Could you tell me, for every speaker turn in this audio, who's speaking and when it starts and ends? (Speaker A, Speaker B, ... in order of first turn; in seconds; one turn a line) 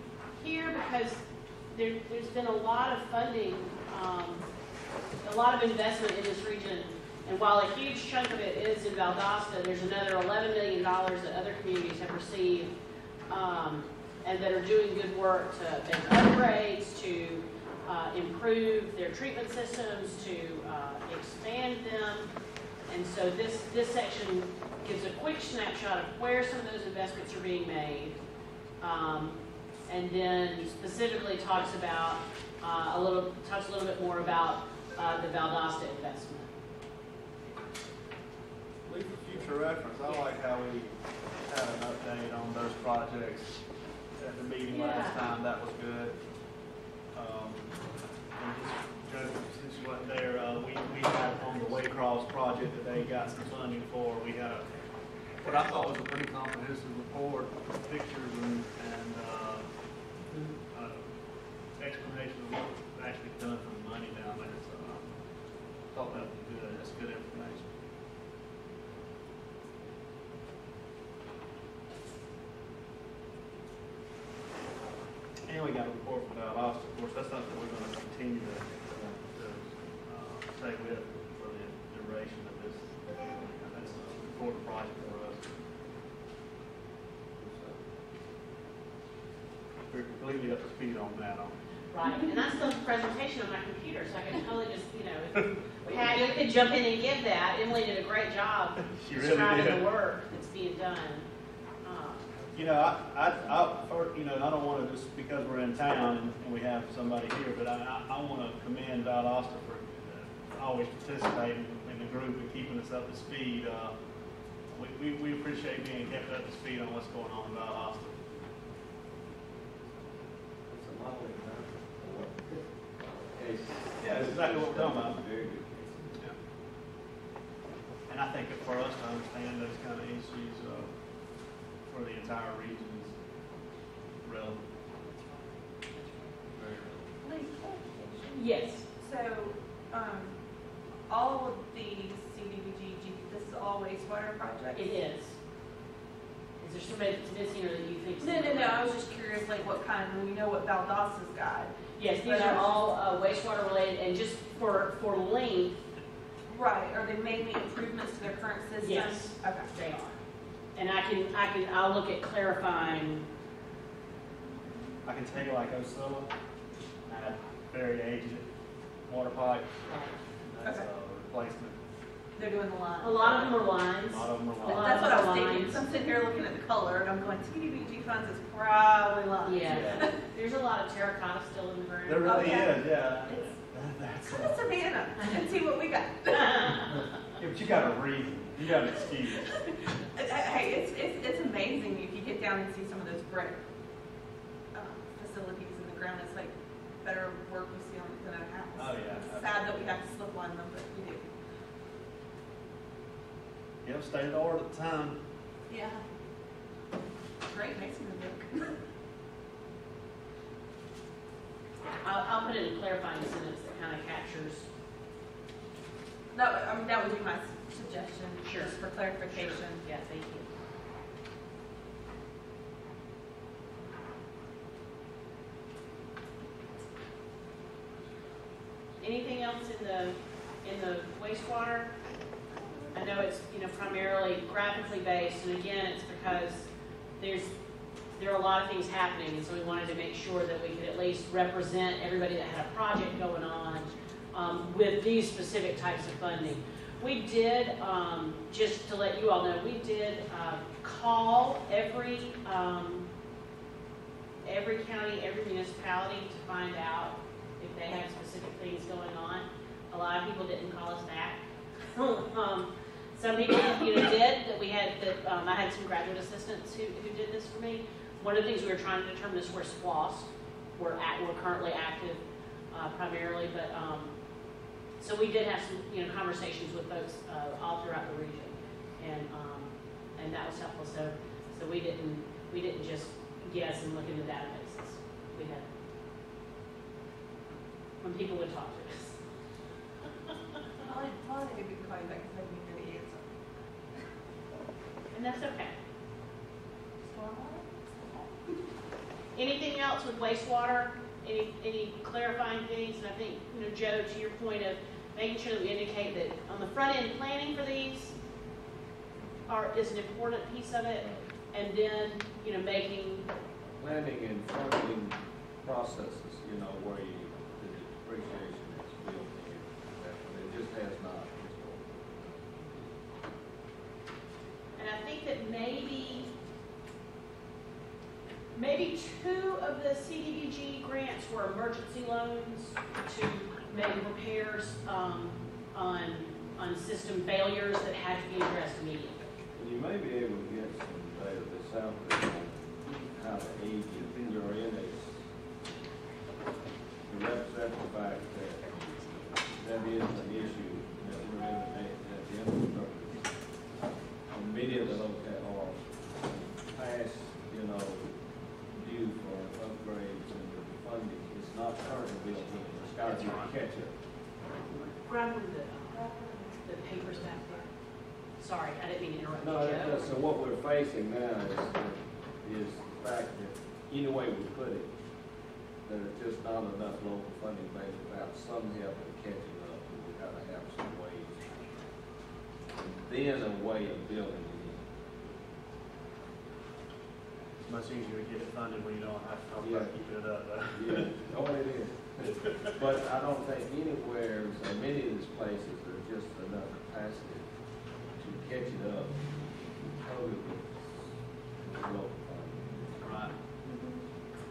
Speaker A: 0.4-4.5
Speaker A: 5.2-12.7
Speaker A: 13.3-22.3
Speaker A: 22.9-28.2
Speaker A: 28.8-36.5
Speaker B: 38.8-40.9
Speaker A: 40.0-40.3
Speaker B: 41.4-43.6
Speaker B: 44.1-46.2
Speaker A: 44.7-45.2
Speaker B: 47.1-47.8
Speaker B: 48.3-54.7
Speaker B: 55.4-59.7
Speaker A: 60.3-60.5
Speaker B: 60.7-65.1
Speaker B: 65.8-67.7
Speaker B: 75.5-85.5
Speaker C: 87.4-87.8
Speaker B: 89.9-91.5
Speaker A: 91.9-101.3
Speaker B: 95.3-96.0
Speaker B: 98.8-99.9
Speaker A: 101.8-102.3
Speaker C: 102.3-103.7
Speaker B: 102.5-113.9
Speaker B: 114.7-118.2
Speaker C: 120.7-126.1
Speaker B: 124.0-125.2
Speaker B: 128.1-131.0
Speaker B: 131.8-133.2
Speaker B: 134.2-134.7
Speaker B: 136.5-137.1
Speaker D: 137.2-140.4
Speaker A: 138.3-138.8
Speaker D: 141.1-145.0
Speaker A: 144.7-145.4
Speaker A: 146.6-149.0
Speaker D: 148.2-152.8
Speaker A: 151.9-155.8
Speaker D: 156.5-159.7
Speaker A: 158.8-160.2
Speaker A: 160.7-163.3
Speaker B: 165.0-166.3
Speaker B: 167.1-168.5
Speaker B: 169.1-169.7
Speaker A: 169.8-170.1
Speaker B: 170.4-171.8
Speaker D: 170.6-170.9
Speaker D: 172.3-173.5
Speaker A: 173.0-175.9
Speaker B: 174.0-175.2
Speaker D: 174.6-180.2
Speaker A: 179.4-182.7
Speaker B: 179.6-180.1
Speaker B: 182.1-184.6
Speaker D: 182.2-183.5
Speaker D: 184.2-186.9
Speaker B: 187.3-189.6
Speaker D: 189.2-193.6
Speaker D: 194.7-201.3
Speaker B: 198.8-199.9
Speaker B: 203.8-205.2
Speaker D: 205.7-206.0
Speaker D: 207.5-208.7
Speaker A: 212.0-214.7
Speaker D: 216.3-219.8
Speaker A: 218.4-220.5
Speaker A: 229.0-231.9
Speaker A: 232.9-237.5
Speaker A: 238.1-253.1
Speaker A: 254.4-261.4
Speaker A: 261.9-274.1
Speaker A: 275.0-285.6
Speaker A: 288.0-289.2
Speaker D: 290.8-293.3
Speaker A: 295.1-295.8
Speaker D: 297.0-298.3
Speaker A: 299.3-308.1
Speaker A: 309.5-313.3
Speaker C: 313.8-322.4
Speaker A: 324.8-326.3
Speaker A: 328.5-339.2
Speaker C: 339.5-345.2
Speaker B: 343.9-344.4
Speaker C: 347.1-348.7
Speaker A: 348.6-349.8
Speaker C: 349.6-353.2
Speaker C: 354.3-363.9
Speaker B: 354.6-355.0
Speaker B: 362.7-363.5
Speaker A: 364.7-366.1
Speaker D: 365.9-366.8
Speaker A: 366.6-367.7
Speaker A: 368.4-370.1
Speaker C: 369.4-374.9
Speaker C: 375.8-381.6
Speaker C: 382.7-384.9
Speaker B: 387.6-391.1
Speaker C: 389.6-389.9
Speaker C: 390.7-397.5
Speaker C: 398.1-399.2
Speaker C: 399.9-401.1
Speaker C: 401.6-402.9
Speaker B: 403.0-404.0